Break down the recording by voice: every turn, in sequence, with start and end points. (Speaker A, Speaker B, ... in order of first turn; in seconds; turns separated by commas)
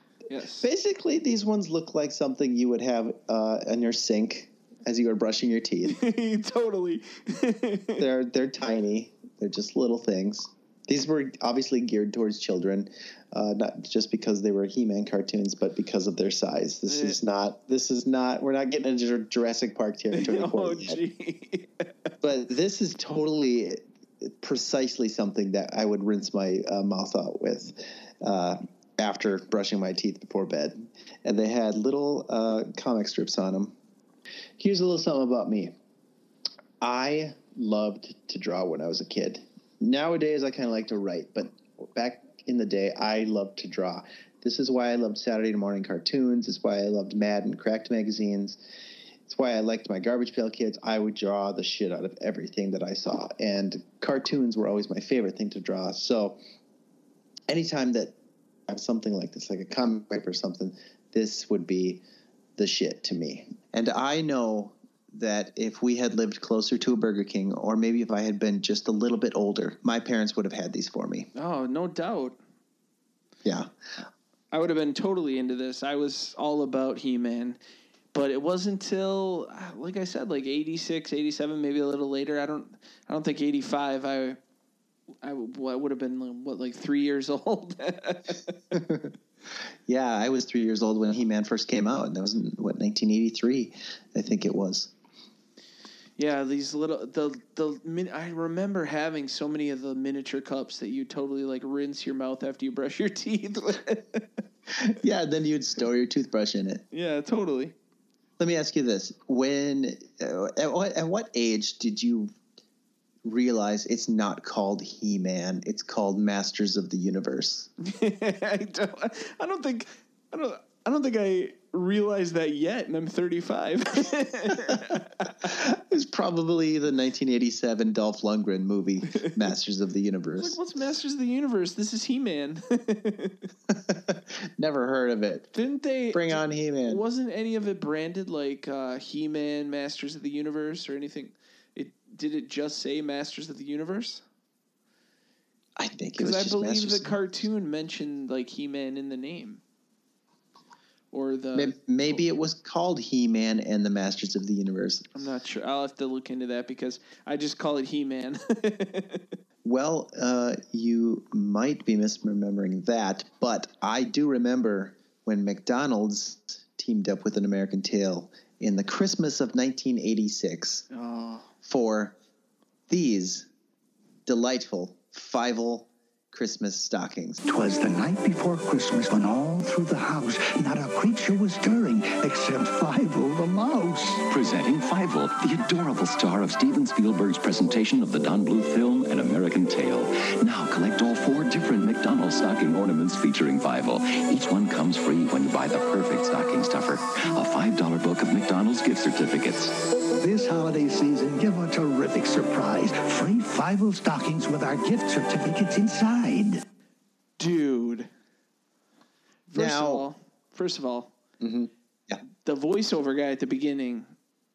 Speaker A: 0.3-0.7, Speaker B: 0.6-6.0, Speaker A: 5.8-8.0, Speaker B: 8.0-21.0, Speaker A: 16.9-17.2, Speaker A: 20.1-22.1, Speaker B: 22.2-33.7, Speaker B: 34.6-35.7, Speaker B: 36.8-48.6, Speaker B: 49.3-56.4, Speaker B: 57.5-58.1, Speaker B: 58.7-62.0, Speaker B: 62.6-71.3, Speaker A: 71.4-72.4, Speaker B: 73.4-73.7, Speaker A: 74.5-77.6, Speaker A: 78.1-84.4, Speaker A: 85.2-88.5, Speaker B: 88.7-89.1, Speaker B: 89.9-94.9, Speaker A: 96.2-104.4, Speaker B: 104.8-106.8, Speaker A: 106.9-107.7, Speaker B: 108.4-112.3, Speaker B: 113.2-117.7, Speaker A: 117.8-125.3, Speaker B: 125.4-130.6, Speaker A: 130.4-133.5, Speaker B: 133.7-135.5, Speaker A: 135.5-144.2, Speaker B: 136.1-137.0, Speaker B: 145.8-147.2, Speaker A: 146.2-149.6, Speaker A: 151.1-152.2, Speaker B: 151.5-155.1, Speaker A: 155.2-159.3, Speaker B: 159.7-170.8, Speaker A: 170.9-171.5, Speaker B: 171.7-172.1, Speaker B: 172.9-173.5, Speaker B: 174.3-177.4, Speaker C: 177.5-184.2, Speaker D: 184.2-199.8, Speaker C: 200.2-206.6, Speaker A: 207.4-208.1, Speaker A: 209.5-211.1, Speaker B: 209.5-210.1, Speaker B: 211.4-212.2, Speaker A: 212.4-214.1